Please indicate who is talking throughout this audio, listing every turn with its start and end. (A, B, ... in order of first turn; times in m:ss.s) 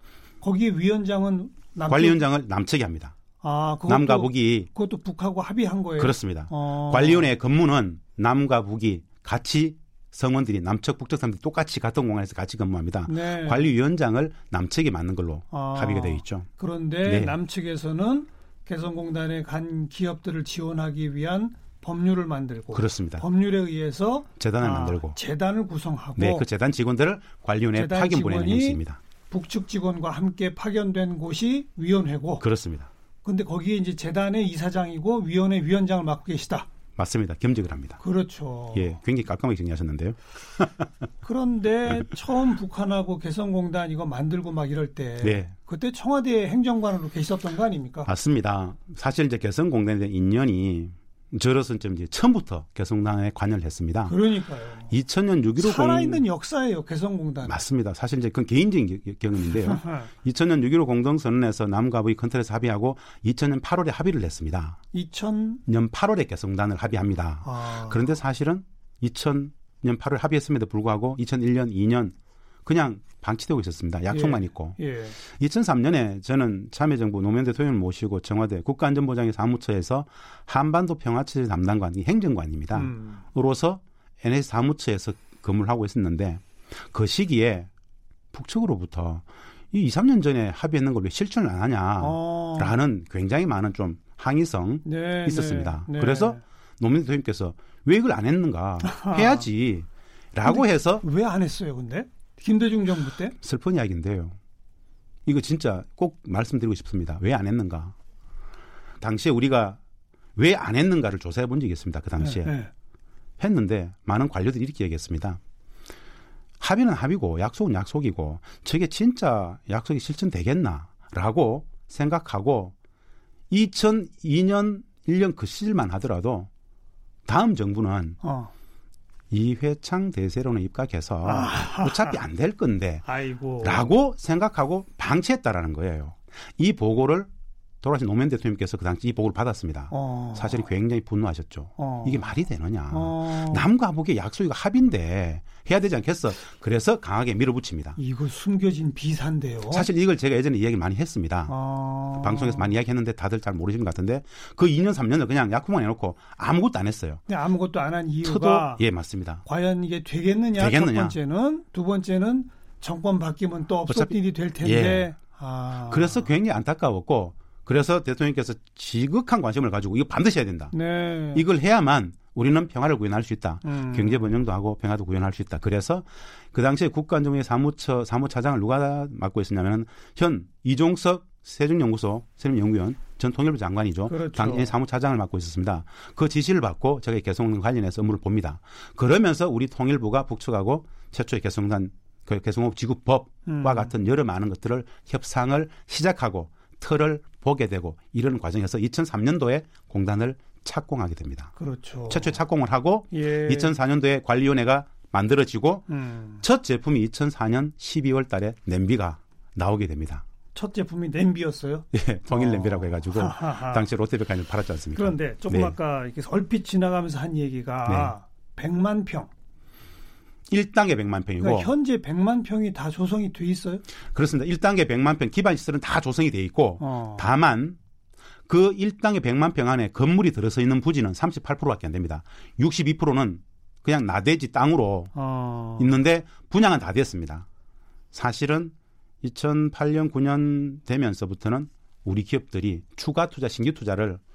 0:00.4-0:02.2 A
0:01.9-0:03.2 B
0:03.4-0:07.3 A
0:03.9-0:04.7 B
0:06.0-0:16.5 B
0:13.1-0:13.7 A
0:15.5-0:26.5 A
0:17.0-0:17.4 B
0:22.7-0:23.2 B
0:24.4-0:25.2 B
0:26.2-0:29.0 B
0:27.7-0:32.4 A
0:32.4-0:32.9 B
0:33.2-0:36.7 A
0:37.0-0:38.0 B
0:38.0-0:39.0 A
0:38.7-0:40.8 B
0:41.2-0:48.1 A
0:45.2-0:45.5 B
0:48.1-0:54.2 B
0:54.1-0:54.9 A
0:54.9-0:56.2 B
0:55.6-0:57.6 A
0:57.4-1:04.8 B
0:59.7-1:00.1 A
1:04.9-1:05.6 A
1:05.7-1:27.7 B
1:07.4-1:08.0 A
1:14.1-1:15.2 A
1:22.7-1:23.2 A
1:28.3-1:41.0 B
1:32.0-1:32.7 A
1:34.8-1:36.4 A
1:38.8-1:39.5 A
1:40.4-1:43.4 A
1:43.4-1:44.4 B
1:45.3-1:48.0 B
1:49.0-1:49.8 B
1:50.4-1:52.5 B
1:52.2-1:52.7 A
1:53.4-1:55.4 B
1:56.6-2:02.7 B
2:03.5-2:06.5 B
2:07.3-2:08.2 B
2:08.2-2:08.5 A
2:09.3-2:13.0 B
2:11.2-2:12.2 A
2:13.1-2:13.9 A
2:13.6-2:17.3 B
2:17.8-2:28.0 B
2:19.9-2:20.6 A
2:21.8-2:22.3 A
2:22.9-2:23.7 A
2:28.0-2:29.9 A
2:29.7-2:31.5 B
2:31.5-2:32.7 A
2:32.2-2:37.2 B
2:37.3-2:38.8 A
2:38.2-2:39.4 B
2:39.4-2:46.3 A
2:40.6-2:41.2 B
2:43.9-2:45.1 B
2:45.9-2:50.7 B
2:50.7-2:51.4 A
2:51.3-3:21.5 B
2:53.6-2:54.4 A
3:04.1-3:04.7 A
3:13.5-3:13.9 A
3:21.6-3:22.4 A
3:22.1-3:25.9 B
3:23.1-3:23.8 A
3:25.9-3:26.4 A
3:26.4-3:30.2 B
3:30.6-3:33.9 A
3:31.9-3:35.7 B
3:35.0-3:39.3 A
3:37.8-3:38.1 B
3:40.5-3:41.7 B
3:41.4-3:43.8 A
3:44.1-3:47.8 B
3:46.8-3:47.3 A
3:48.5-3:55.1 B
3:55.2-3:56.0 A
3:55.8-3:57.5 B
3:58.1-4:04.2 B